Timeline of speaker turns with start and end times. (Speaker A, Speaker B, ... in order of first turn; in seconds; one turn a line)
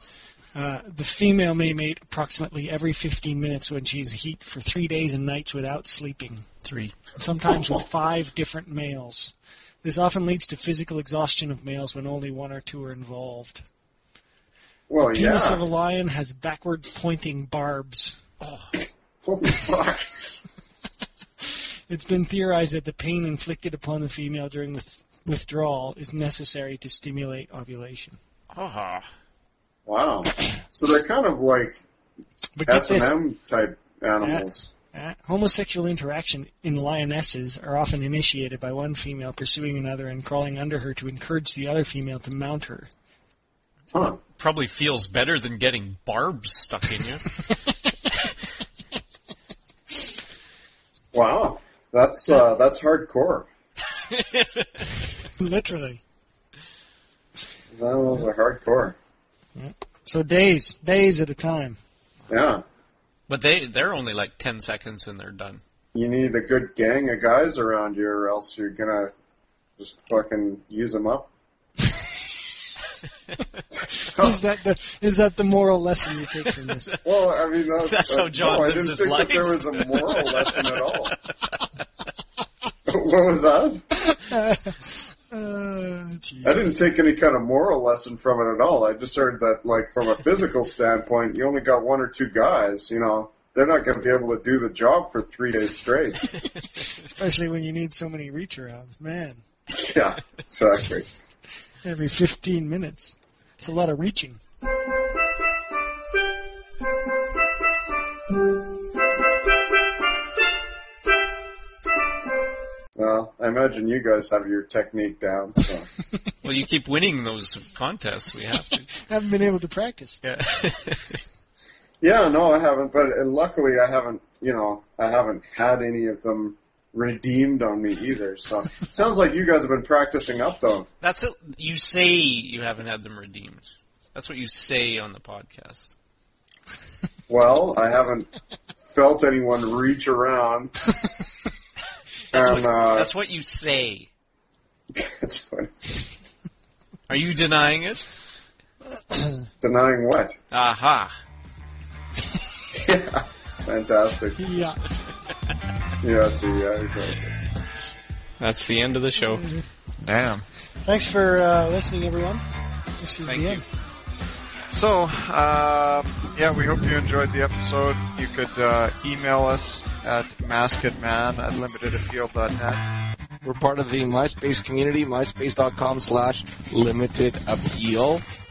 Speaker A: 0.6-6.5
Speaker B: 6.6-7.0
Speaker A: 7.2-13.7
Speaker C: 14.9-15.6
Speaker A: 15.1-18.2
Speaker B: 18.4-18.8
Speaker C: 19.2-20.4
Speaker A: 21.9-28.2
Speaker B: 28.5-29.1
Speaker C: 29.9-31.8
Speaker A: 32.6-33.2
Speaker C: 32.7-34.7
Speaker A: 34.2-42.9
Speaker C: 43.9-44.2
Speaker B: 44.4-47.3
Speaker C: 51.1-53.5
Speaker B: 54.1-54.8
Speaker A: 55.4-56.0
Speaker C: 57.7-59.0
Speaker A: 59.6-61.8
Speaker C: 62.3-62.6
Speaker B: 63.3-65.6
Speaker C: 65.9-69.1
Speaker C: 69.8-71.3
Speaker C: 73.8-74.4
Speaker A: 74.2-77.0
Speaker C: 77.0-81.2
Speaker B: 77.8-80.7
Speaker C: 82.9-83.8
Speaker A: 84.1-86.8
Speaker C: 86.4-96.3
Speaker A: 97.0-99.4
Speaker C: 99.7-101.1
Speaker A: 101.8-104.4
Speaker C: 113.0-115.9
Speaker B: 116.4-118.9
Speaker A: 118.9-120.2
Speaker B: 120.2-121.2
Speaker C: 122.0-130.9
Speaker B: 131.0-135.9
Speaker C: 137.3-140.7
Speaker B: 142.3-144.1
Speaker C: 142.3-143.1
Speaker C: 144.9-146.1
Speaker B: 147.1-148.1
Speaker A: 149.1-149.4
Speaker C: 149.6-150.4
Speaker B: 150.5-151.1
Speaker C: 152.7-154.4
Speaker A: 154.4-155.0
Speaker C: 156.0-157.3
Speaker B: 158.4-159.5
Speaker A: 159.3-159.7
Speaker D: 160.1-160.4
Speaker A: 160.8-162.4
Speaker A: 163.0-163.6
Speaker B: 163.3-163.6
Speaker D: 164.7-172.8
Speaker E: 173.4-178.2